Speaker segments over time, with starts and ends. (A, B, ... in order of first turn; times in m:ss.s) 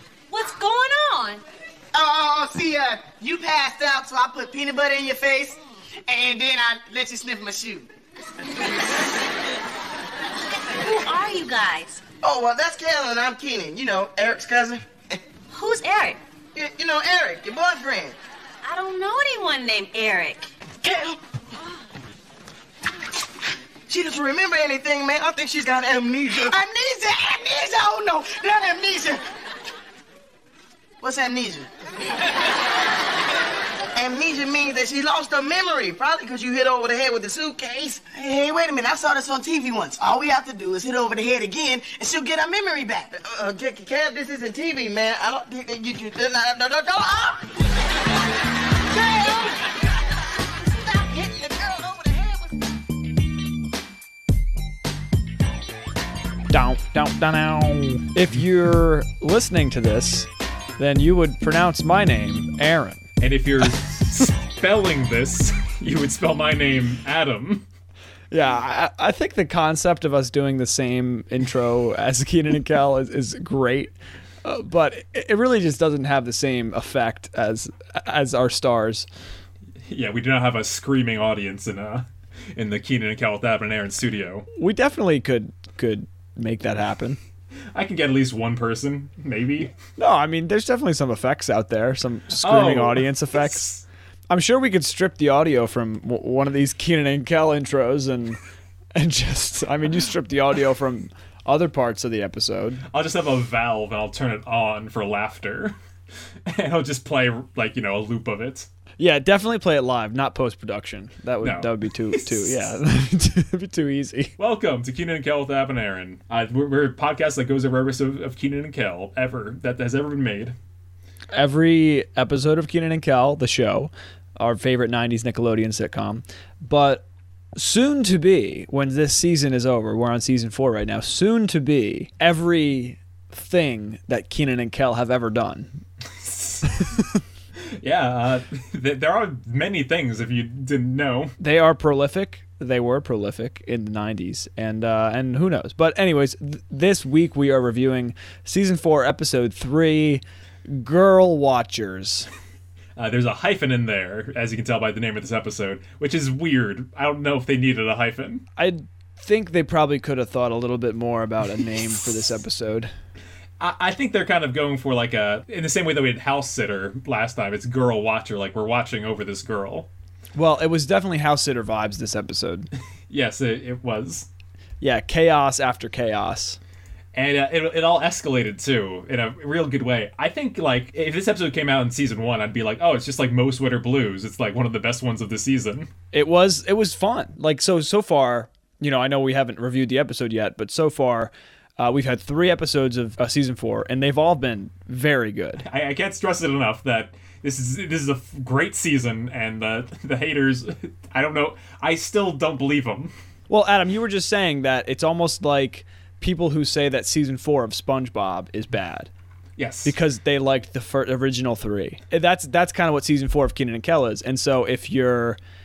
0:00.3-0:01.4 A
0:01.9-0:07.9 B
0:10.8-0:12.0 A
0:12.2-0:15.2 B
0:15.5-0:16.2 A
0:16.6-0:18.2 B
0:18.6-0:20.5 A
0:20.8-0:21.2 B
0:23.9-0:29.2 B
0:31.0-0:31.7 B
0:33.9-0:47.6 B
0:48.8-0:52.6 B
0:56.5-1:03.0 C
1:03.2-1:07.6 D
1:08.3-1:19.0 C
1:19.8-1:24.4 D
1:24.5-1:27.2 C
1:27.7-1:29.7 D
1:30.0-1:33.8 C
1:32.4-1:33.8 D
1:34.3-1:38.4 C
1:38.9-1:42.8 C
1:42.9-1:45.8 D
1:46.4-1:48.7 D
1:49.0-1:54.3 C
1:51.4-1:52.6 D
1:54.4-2:00.6 D
2:01.3-2:07.0 C
2:07.6-2:15.8 C
2:16.1-2:16.8 D
2:17.6-2:21.3 D
2:21.4-2:32.3 C
2:33.0-2:38.4 D
2:38.6-2:42.9 C
2:43.6-2:49.9 D
2:50.3-2:52.7 C
2:53.1-2:54.3 D
2:54.8-2:56.6 C
2:57.1-3:05.9 D
3:06.1-3:15.6 C
3:15.6-3:23.1 D
3:23.5-3:29.1 C
3:29.6-3:29.9 D
3:29.8-3:35.4 C